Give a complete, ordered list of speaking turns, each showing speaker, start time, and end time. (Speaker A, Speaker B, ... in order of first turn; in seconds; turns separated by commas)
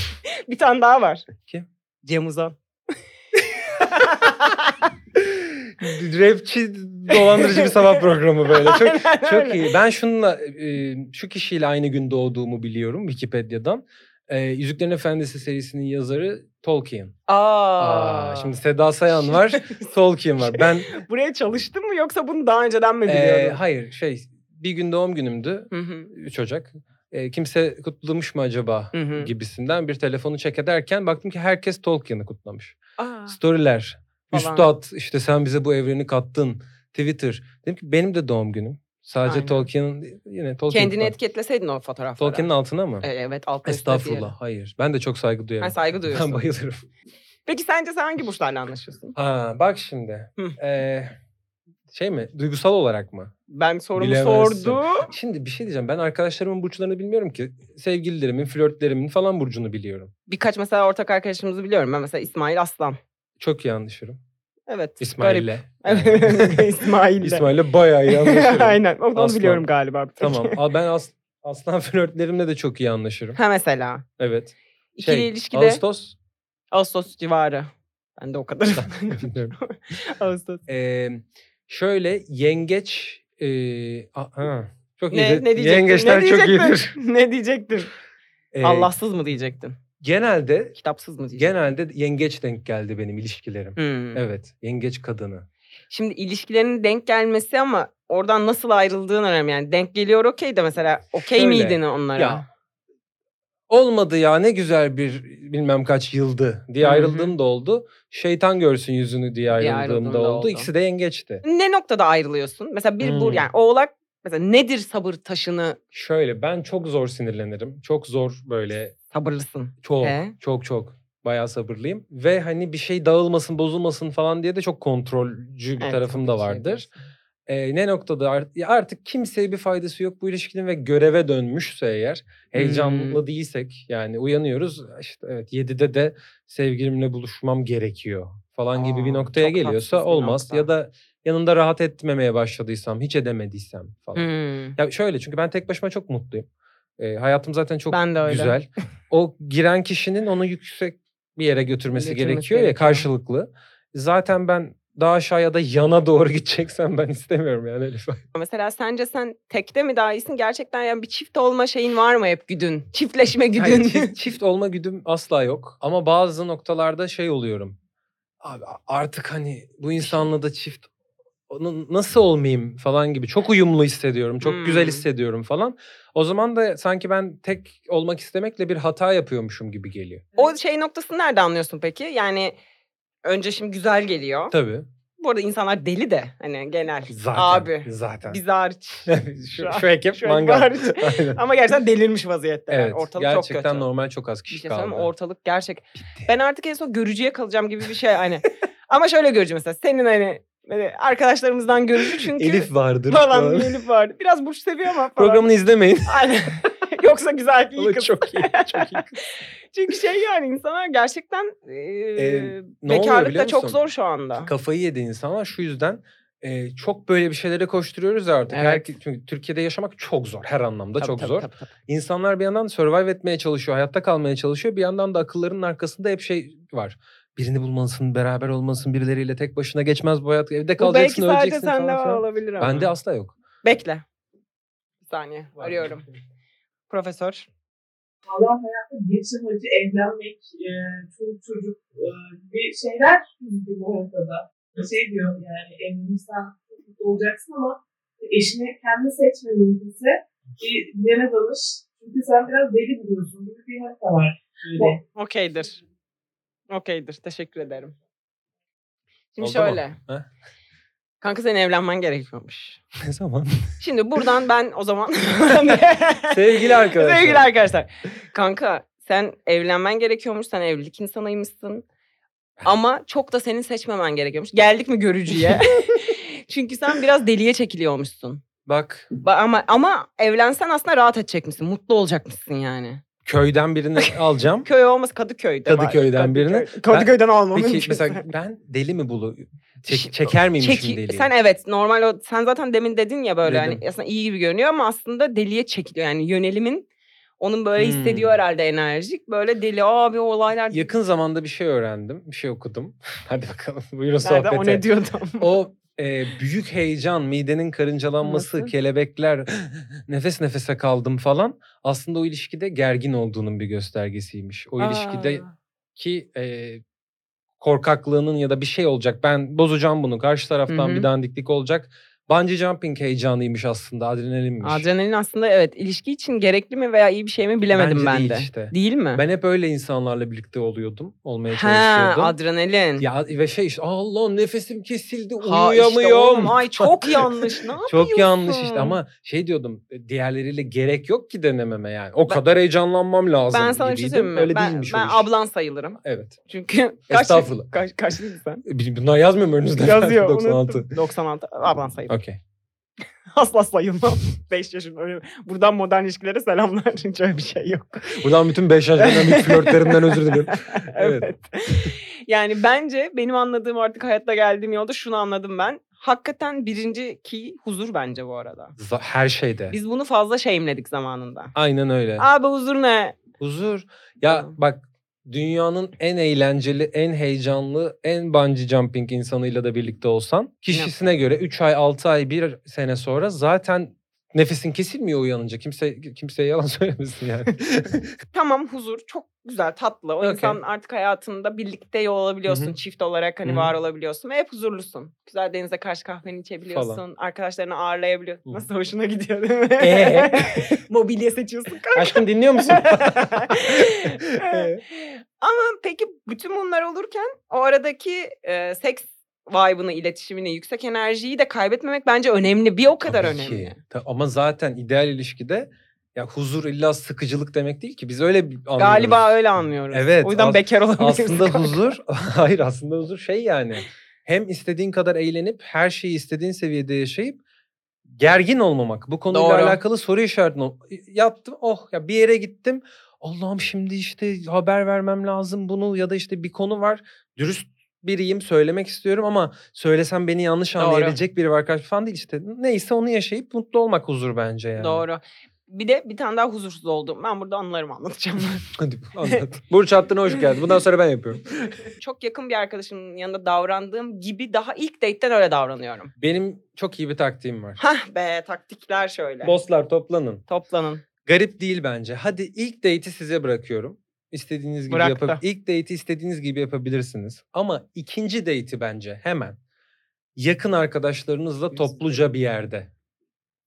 Speaker A: 0.3-1.3, Speaker A: 2.0-2.6, Speaker B: 3.5-4.1, Speaker A: 3.8-4.8, Speaker B: 5.2-17.2, Speaker A: 7.1-7.7, Speaker A: 8.5-9.7, Speaker A: 17.3-18.6, Speaker B: 17.8-20.9, Speaker A: 19.1-19.9, Speaker A: 20.4-23.6, Speaker B: 23.1-32.8, Speaker A: 25.7-26.1, Speaker A: 28.9-29.3, Speaker A: 33.0-33.4, Speaker B: 33.3-41.1, Speaker A: 34.3-34.7, Speaker A: 39.2-39.6, Speaker A: 40.7-44.3, Speaker B: 42.2-43.1, Speaker B: 43.7-46.9, Speaker A: 45.6-46.5, Speaker A: 47.5-49.2, Speaker B: 49.2-51.1, Speaker B: 51.9-53.3, Speaker A: 53.5-55.1, Speaker B: 54.0-60.1, Speaker A: 60.3-63.0, Speaker B: 63.4-64.2, Speaker A: 64.7-67.5, Speaker B: 65.0-69.7, Speaker A: 68.1-70.6, Speaker B: 70.2-73.4, Speaker A: 73.3-74.0, Speaker B: 74.2-76.2, Speaker A: 75.0-75.8, Speaker A: 76.7-80.7, Speaker B: 78.8-79.5, Speaker B: 80.7-87.0, Speaker A: 85.1-87.9, Speaker B: 88.5-88.9, Speaker A: 88.6-89.8, Speaker B: 90.0-90.8, Speaker A: 90.8-91.5, Speaker B: 91.3-95.5, Speaker A: 93.8-94.2, Speaker A: 95.9-102.5, Speaker B: 101.2-102.4, Speaker B: 103.7-111.4, Speaker A: 106.8-107.3, Speaker A: 109.6-110.7, Speaker A: 111.4-115.8, Speaker B: 113.0-113.5, Speaker B: 115.9-119.0, Speaker A: 119.1-120.3, Speaker B: 119.8-126.9, Speaker A: 125.8-126.9, Speaker B: 127.5-158.2, Speaker A: 132.6-133.2, Speaker A: 138.7-140.7, Speaker A: 144.2-144.8, Speaker A: 147.9-148.6, Speaker A: 151.9-153.1, Speaker A: 158.3-164.2, Speaker B: 163.6-167.8, Speaker B: 168.4-170.9, Speaker B: 171.5-180.3, Speaker A: 174.4-175.1, Speaker A: 180.4-182.6, Speaker A: 183.2-184.6, Speaker B: 184.5-184.9, Speaker A: 185.2-193.9, Speaker B: 187.1-188.4, Speaker B: 189.1-191.4, Speaker B: 192.7-195.1, Speaker A: 194.5-205.5, Speaker B: 196.0-196.3, Speaker B: 202.1-203.8, Speaker B: 205.2-206.3, Speaker A: 206.1-214.5, Speaker B: 207.8-209.2, Speaker B: 212.2-213.8, Speaker B: 214.4-233.3, Speaker A: 218.5-218.9, Speaker A: 221.0-221.7, Speaker A: 230.8-232.9, Speaker A: 233.6-234.1, Speaker A: 235.1-236.1, Speaker B: 235.6-236.2, Speaker A: 236.9-237.5, Speaker C: 238.3-255.0, Speaker A: 255.1-255.8, Speaker A: 256.7-257.9, Speaker A: 259.3-260.0, Speaker B: 259.4-260.3, Speaker A: 261.2-262.8, Speaker B: 263.0-263.8, Speaker A: 263.8-271.9, Speaker B: 266.3-267.5, Speaker A: 272.6-278.4, Speaker B: 278.7-279.1, Speaker A: 279.2-283.0, Speaker B: 283.2-284.7, Speaker A: 284.6-288.3, Speaker B: 285.7-291.3, Speaker A: 289.9-296.9, Speaker B: 293.4-293.8, Speaker A: 297.4-300.9, Speaker B: 297.8-298.4, Speaker B: 300.7-304.9, Speaker A: 304.2-305.5, Speaker B: 305.4-315.4, Speaker A: 308.2-308.7, Speaker A: 314.8-315.5, Speaker B: 316.0-316.8, Speaker B: 317.6-324.9, Speaker A: 320.7-321.1, Speaker A: 324.6-329.2, Speaker B: 327.7-332.4, Speaker A: 331.5-333.1, Speaker B: 333.0-345.3, Speaker A: 335.4-339.0, Speaker A: 343.5-348.6, Speaker B: 346.0-346.4, Speaker B: 347.1-347.7, Speaker B: 348.6-350.9, Speaker A: 349.8-352.1, Speaker B: 352.1-352.4, Speaker A: 353.3-358.2, Speaker B: 358.1-361.3, Speaker A: 359.0-368.8, Speaker B: 368.8-369.8, Speaker A: 369.7-371.5, Speaker B: 371.6-372.3, Speaker A: 372.2-373.2, Speaker B: 373.4-388.1, Speaker A: 374.3-374.6, Speaker A: 388.3-413.8, Speaker B: 390.2-390.6, Speaker B: 392.5-392.8, Speaker B: 393.4-393.7, Speaker B: 396.7-397.0, Speaker B: 399.8-400.8, Speaker B: 401.9-404.8, Speaker B: 413.1-419.3, Speaker A: 418.8-421.9, Speaker B: 419.9-427.4, Speaker B: 428.1-445.0, Speaker A: 429.3-429.8, Speaker A: 440.8-441.2, Speaker A: 444.8-448.7, Speaker B: 448.7-451.8, Speaker A: 451.9-456.1, Speaker B: 456.2-457.8, Speaker A: 457.8-459.6, Speaker B: 459.4-460.4, Speaker A: 460.5-461.0, Speaker B: 461.2-469.6, Speaker A: 464.9-465.4, Speaker B: 470.4-472.9, Speaker A: 471.7-472.0